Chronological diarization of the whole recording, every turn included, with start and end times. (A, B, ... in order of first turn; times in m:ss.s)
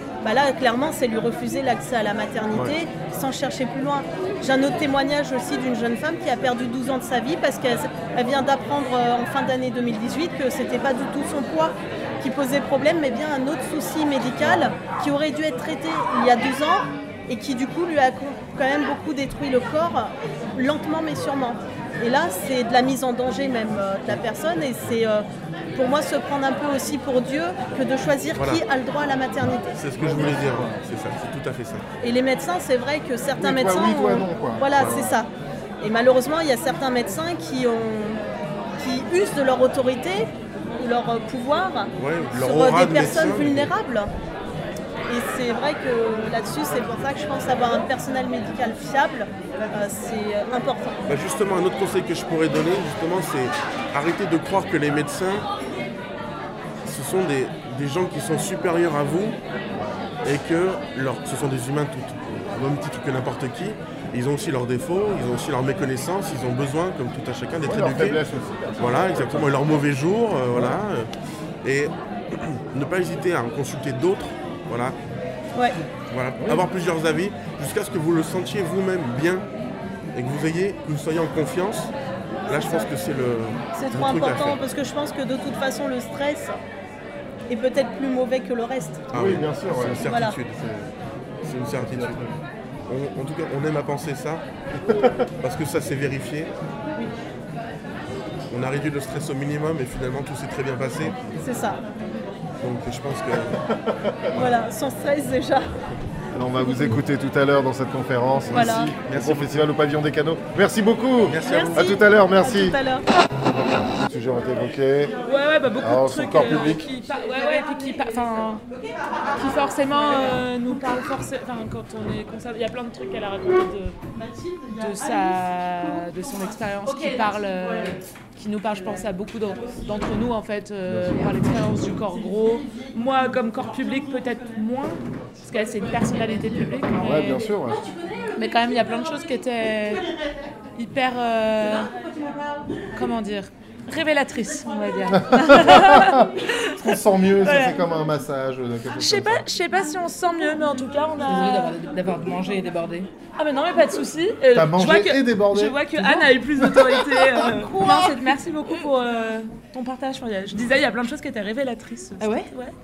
0:00.2-0:29.7 A
0:14.4-0:14.8 B
0:28.4-0:28.6 C
0:29.6-0:31.8 C
0:30.0-0:30.8 B
0:32.0-0:38.2 A
0:33.4-0:35.2 B
0:34.8-0:35.1 C
0:38.8-0:44.1 A
0:42.0-0:43.7 C
0:45.1-0:51.0 A
0:51.1-0:55.5 C
0:56.8-0:59.4 C
0:59.7-1:00.2 B
1:00.2-1:08.2 C
1:07.6-1:09.8 B
1:08.8-1:11.1 C
1:10.5-1:10.8 B
1:11.6-1:15.0 C
1:16.1-1:19.4 C
1:16.4-1:16.7 B
1:20.1-1:21.9 C
1:22.5-1:24.6 C
1:22.5-1:22.9 A
1:23.7-1:26.6 A
1:27.5-1:29.1 A
1:29.1-1:30.6 C
1:29.1-1:30.9 B
1:30.1-1:30.4 A
1:31.4-1:32.3 C
1:31.8-1:32.4 B
1:32.9-1:34.4 C
1:34.8-1:35.2 B
1:35.4-1:36.5 C
1:38.5-1:41.2 C
1:41.0-1:41.4 B
1:41.4-1:41.8 A
1:42.6-1:43.6 C
1:43.4-1:44.5 B
1:44.3-1:45.7 A
1:46.3-1:52.8 B
1:48.5-1:48.9 A
1:48.6-1:49.5 C
1:51.3-1:51.9 C
1:51.4-1:53.0 A
1:53.8-1:55.1 B
1:55.2-1:58.6 D
1:55.8-1:56.9 B
1:59.4-2:04.0 D
2:04.7-2:17.5 D
2:10.9-2:11.4 B
2:17.0-2:17.8 B
2:18.4-2:20.0 D
2:20.8-2:21.9 D
2:23.0-2:26.8 D
2:25.2-2:29.4 B
2:27.4-2:27.8 D
2:29.0-2:31.9 D
2:31.3-2:33.1 E
2:33.4-2:42.8 D
2:34.5-2:36.3 B
2:37.4-2:37.9 E
2:42.2-2:42.5 E